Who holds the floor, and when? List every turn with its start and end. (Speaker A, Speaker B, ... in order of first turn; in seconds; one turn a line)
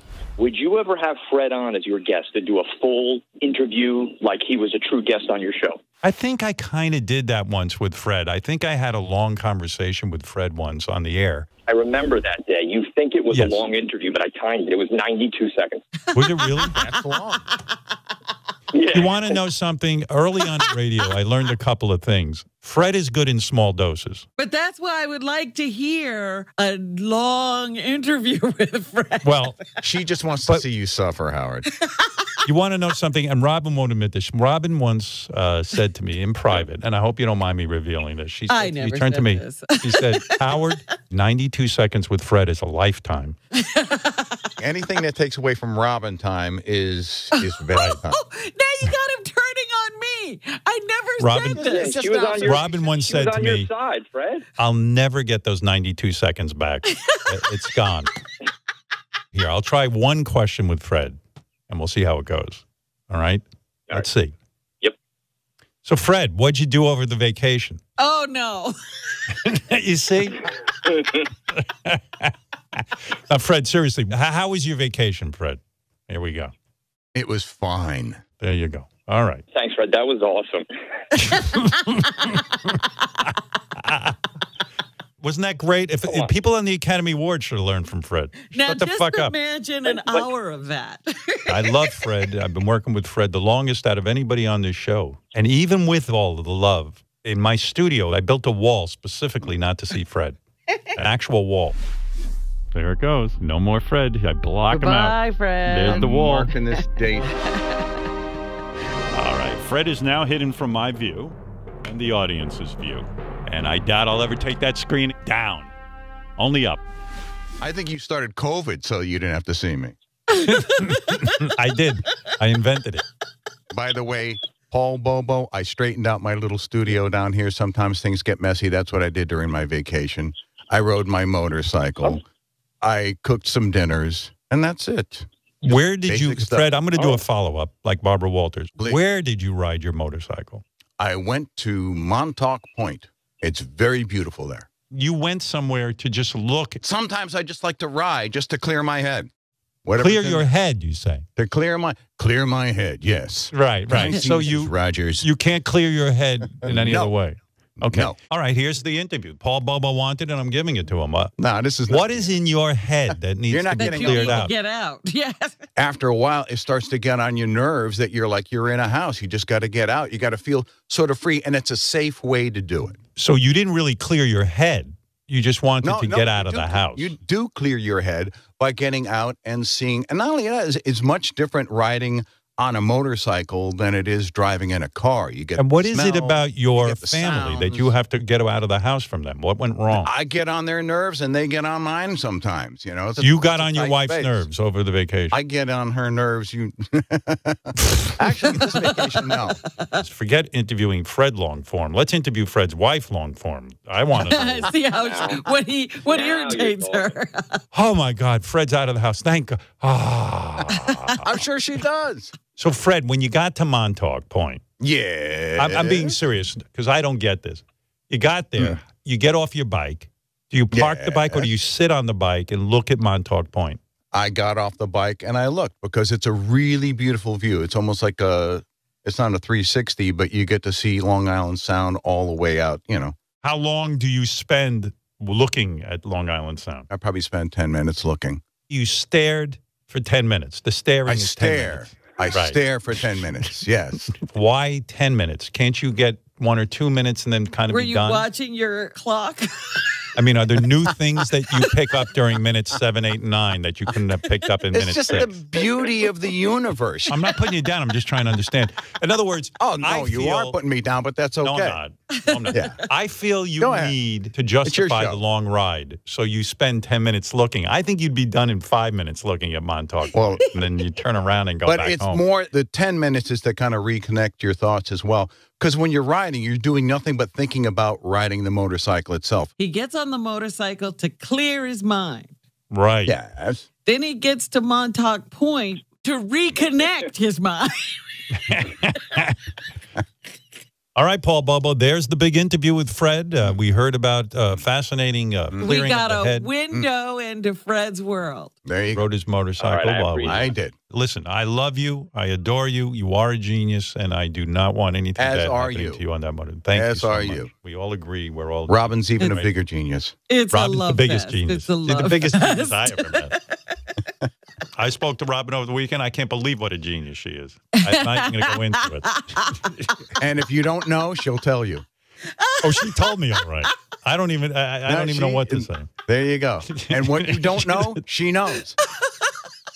Speaker A: 0.4-5.8
Speaker B: 6.0-11.5
Speaker A: 11.7-15.8
Speaker B: 13.3-13.6
Speaker B: 16.1-16.8
Speaker C: 16.4-16.7
Speaker D: 16.7-17.5
Speaker A: 18.7-19.3
Speaker B: 18.9-24.3
Speaker C: 24.4-29.8
Speaker B: 29.2-29.6
Speaker D: 29.8-31.7
Speaker C: 31.9-32.1
Speaker B: 32.5-43.4
Speaker C: 38.5-40.8
Speaker C: 43.6-44.5
Speaker D: 44.6-48.2
Speaker C: 47.5-52.5
Speaker B: 51.2-51.7
Speaker D: 51.5-52.7
Speaker A: 51.6-54.5
Speaker B: 52.4-53.7
Speaker B: 54.6-58.1
Speaker C: 56.9-57.2
Speaker B: 59.3-64.3
Speaker B: 65.8-67.8
Speaker C: 68.0-69.2
Speaker B: 69.3-76.5
Speaker D: 77.1-78.2
Speaker B: 78.4-79.4
Speaker A: 79.5-80.7
Speaker B: 81.2-82.4
Speaker C: 82.2-82.7
Speaker B: 83.2-84.2
Speaker B: 85.2-89.3
Speaker A: 86.1-86.3
Speaker C: 88.5-92.1
Speaker A: 89.8-90.3
Speaker B: 91.5-100.4
Speaker B: 100.9-101.8
Speaker B: 102.7-106.5
Speaker C: 104.7-106.1
Speaker D: 105.9-107.3
Speaker C: 107.4-107.8
Speaker B: 109.1-115.7
Speaker B: 116.4-116.8
Speaker D: 117.6-120.0
Speaker C: 120.4-121.4
Speaker B: 120.4-123.0
Speaker D: 123.7-132.2
Speaker D: 132.8-136.7
Speaker B: 135.6-140.6
Speaker D: 141.0-144.7
Speaker B: 144.9-146.8
Speaker D: 146.8-149.3
Speaker D: 149.8-150.5
Speaker B: 150.0-151.3
Speaker D: 151.4-155.3
Speaker B: 153.5-161.3
Speaker D: 156.6-157.1
Speaker D: 157.9-158.2
Speaker D: 161.4-162.3
Speaker B: 161.9-164.5
Speaker D: 163.5-164.4
Speaker C: 163.8-165.6
Speaker D: 165.8-173.0
Speaker B: 173.2-177.1
Speaker D: 175.8-187.9
Speaker B: 185.6-190.1
Speaker D: 189.9-194.5
Speaker B: 193.2-195.4
Speaker D: 195.3-199.6
Speaker B: 199.9-204.7
Speaker C: 204.1-207.6
Speaker A: 204.9-205.5
Speaker A: 206.1-207.1
Speaker B: 207.7-211.3
Speaker C: 210.7-211.0
Speaker D: 211.1-212.3
Speaker B: 212.6-214.6
Speaker D: 214.8-216.2
Speaker B: 215.6-223.8
Speaker D: 220.7-221.5
Speaker D: 224.1-233.2
Speaker B: 233.4-236.9
Speaker D: 236.9-238.4
Speaker B: 238.7-243.2
Speaker D: 241.1-244.1
Speaker B: 244.2-248.2
Speaker C: 247.7-250.0
Speaker B: 250.2-255.3
Speaker D: 254.7-257.1
Speaker B: 257.1-260.6
Speaker D: 259.6-261.8
Speaker B: 261.4-272.2
Speaker C: 262.3-262.7
Speaker D: 262.5-262.8
Speaker D: 263.6-264.0
Speaker D: 264.6-265.2
Speaker D: 270.1-270.5
Speaker D: 271.6-279.5
Speaker C: 279.6-282.3
Speaker B: 282.7-283.2
Speaker D: 283.1-283.7
Speaker C: 283.9-288.1
Speaker B: 288.3-289.5
Speaker B: 291.0-296.5
Speaker C: 295.6-298.5
Speaker D: 298.6-299.1
Speaker B: 298.9-309.5
Speaker A: 299.6-300.5
Speaker D: 300.2-300.7
Speaker D: 305.2-306.0
Speaker D: 306.7-307.5
Speaker D: 308.7-310.1
Speaker C: 310.3-313.8
Speaker B: 310.5-313.4
Speaker B: 314.8-319.5
Speaker C: 317.8-319.7
Speaker D: 320.2-321.9
Speaker C: 322.3-323.7
Speaker B: 322.6-325.9
Speaker D: 324.9-328.8
Speaker B: 326.7-327.9